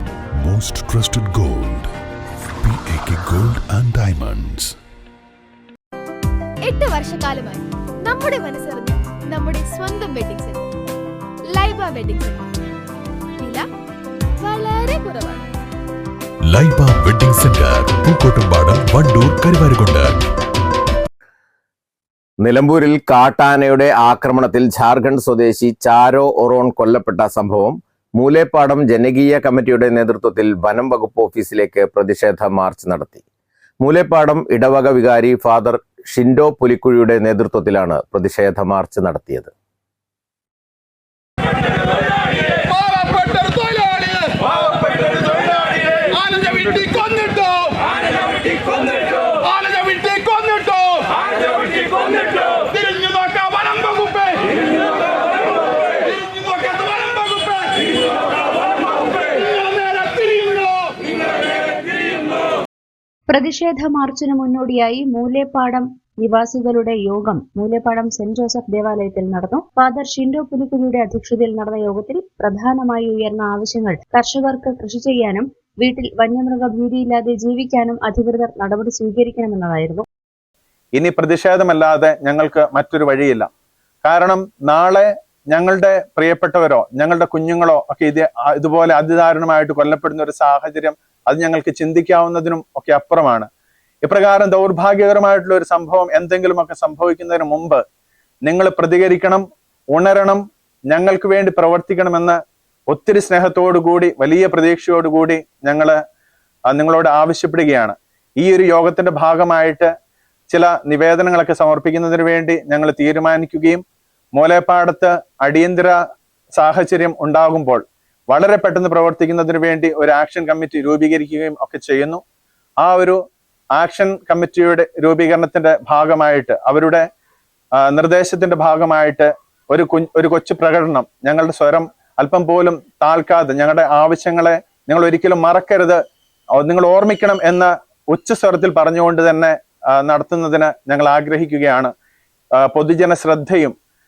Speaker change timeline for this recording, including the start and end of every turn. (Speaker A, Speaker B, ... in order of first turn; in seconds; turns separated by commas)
Speaker A: 0.4-1.9, Speaker A: 2.6-4.7, Speaker B: 6.6-10.6, Speaker B: 11.5-12.5, Speaker B: 13.4-13.7, Speaker B: 14.4-15.4, Speaker A: 16.4-20.2, Speaker C: 22.4-33.2, Speaker C: 33.8-39.5, Speaker D: 63.3-80.0, Speaker E: 81.0-83.5, Speaker E: 84.0-93.5, Speaker E: 94.0-97.8, Speaker E: 98.4-100.4, Speaker E: 100.9-102.4, Speaker E: 102.9-106.0, Speaker E: 106.7-109.9, Speaker E: 110.5-113.8, Speaker E: 114.3-116.0, Speaker E: 116.6-122.2, Speaker E: 122.8-123.2, Speaker E: 123.7-127.0, Speaker E: 127.8-136.0, Speaker E: 136.6-141.9, Speaker E: 142.6-143.7